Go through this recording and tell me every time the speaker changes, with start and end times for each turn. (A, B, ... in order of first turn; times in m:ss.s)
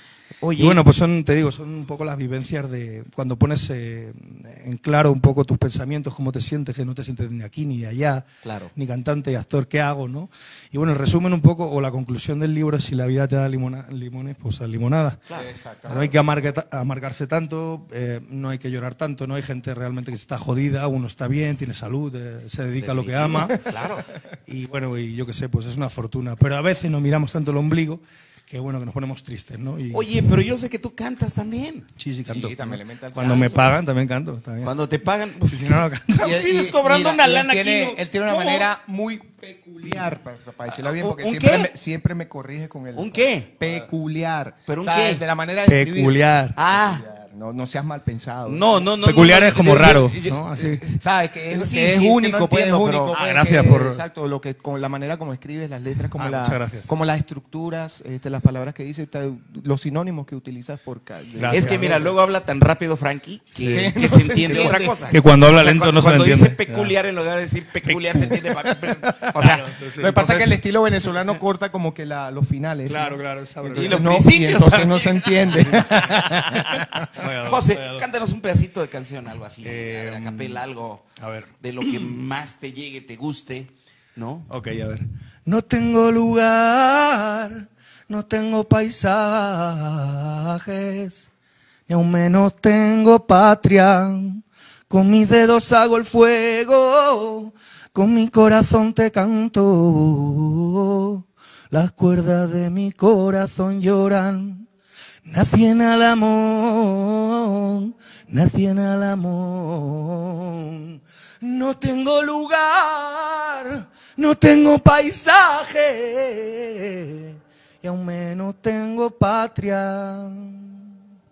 0:00.4-0:00.8 A
0:00.6-0:15.2 B
0:08.4-0:08.7 A
0:15.3-0:16.2 C
0:15.9-0:23.7 B
0:22.8-0:24.1 A
0:24.5-0:30.1 B
0:29.9-0:31.8 A
0:32.0-0:34.7 B
0:32.2-0:33.7 C
0:33.2-0:33.6 A
0:34.6-0:38.7 A
0:35.4-0:36.3 B
0:36.2-0:48.8 C
0:40.7-0:41.7 A
0:42.9-0:43.9 A
0:44.6-0:45.2 A
0:45.6-0:46.6 B
0:46.6-0:47.0 A
0:48.4-0:53.6 A
0:49.0-0:50.8 B
0:51.0-1:02.1 C
0:53.1-0:54.0 B
0:56.1-0:56.9 B
1:01.3-1:02.1 B
1:01.5-1:09.7 A
1:03.5-1:07.0 B
1:03.7-1:04.9 C
1:07.8-1:08.4 B
1:08.5-1:09.3 C
1:09.4-1:10.4 B
1:10.0-1:16.9 C
1:10.2-1:10.6 A
1:12.8-1:14.2 B
1:13.7-1:15.8 A
1:15.5-1:18.0 B
1:17.4-1:21.0 A
1:19.6-1:20.6 B
1:21.2-1:22.2 B
1:21.6-1:24.5 A
1:24.5-1:31.3 B
1:31.9-1:44.6 B
1:45.2-2:00.8 B